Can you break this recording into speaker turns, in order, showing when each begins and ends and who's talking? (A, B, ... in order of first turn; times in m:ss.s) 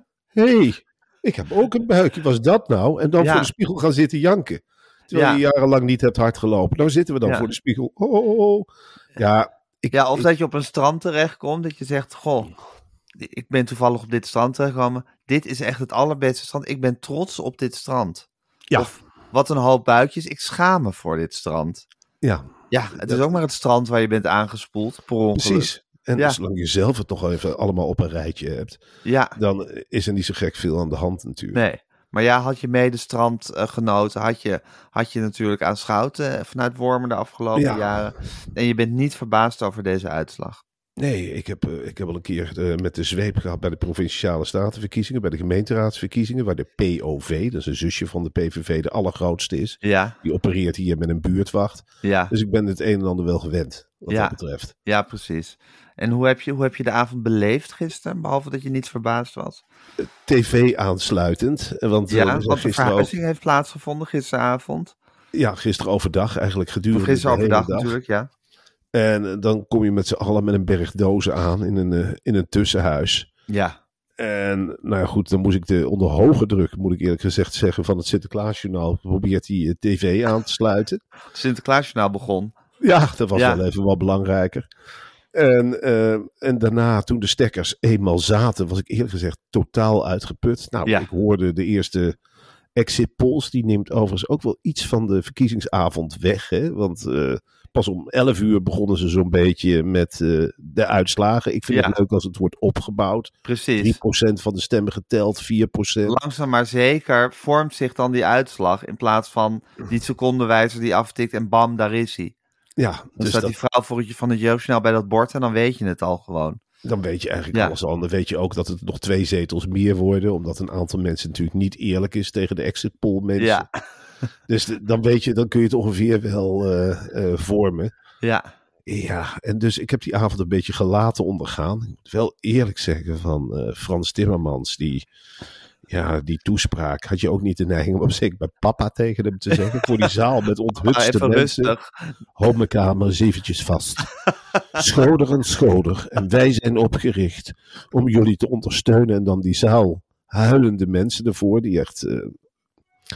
0:00.3-0:10.3 A
0:03.2-0:03.5 B
0:05.1-0:05.4 B
0:09.9-0:12.5 B
0:13.2-0:21.8 B
0:22.2-0:23.3 A
0:22.7-0:26.4 B
0:25.3-0:28.8 A
0:29.0-0:29.4 B
0:29.4-0:31.6 A
0:31.5-0:40.6 B
0:37.5-0:38.0 A
0:41.0-0:54.7 A
0:49.8-0:50.2 B
0:52.0-0:52.3 B
0:54.1-0:59.6 B
1:00.0-1:03.1 A
1:02.1-1:04.9 B
1:05.3-1:08.0 A
1:06.9-1:08.3 B
1:08.9-1:13.3 A
1:13.5-1:13.8 B
1:14.2-1:21.0 A
1:21.3-1:22.6 B
1:22.8-1:24.7 A
1:23.3-1:23.6 B
1:25.3-1:32.2 A
1:32.7-1:46.2 A
1:41.7-1:42.0 B
1:43.4-1:44.0 B
1:46.0-1:52.3 B
1:52.8-1:53.5 A
1:53.2-1:56.6 B
1:56.8-2:03.7 A
2:03.4-2:03.8 B
2:04.5-2:07.9 A
2:08.2-2:08.5 B
2:08.8-2:15.0 A
2:15.9-2:21.7 A
2:20.8-2:22.2 B
2:22.4-2:24.1 A
2:24.8-2:32.3 A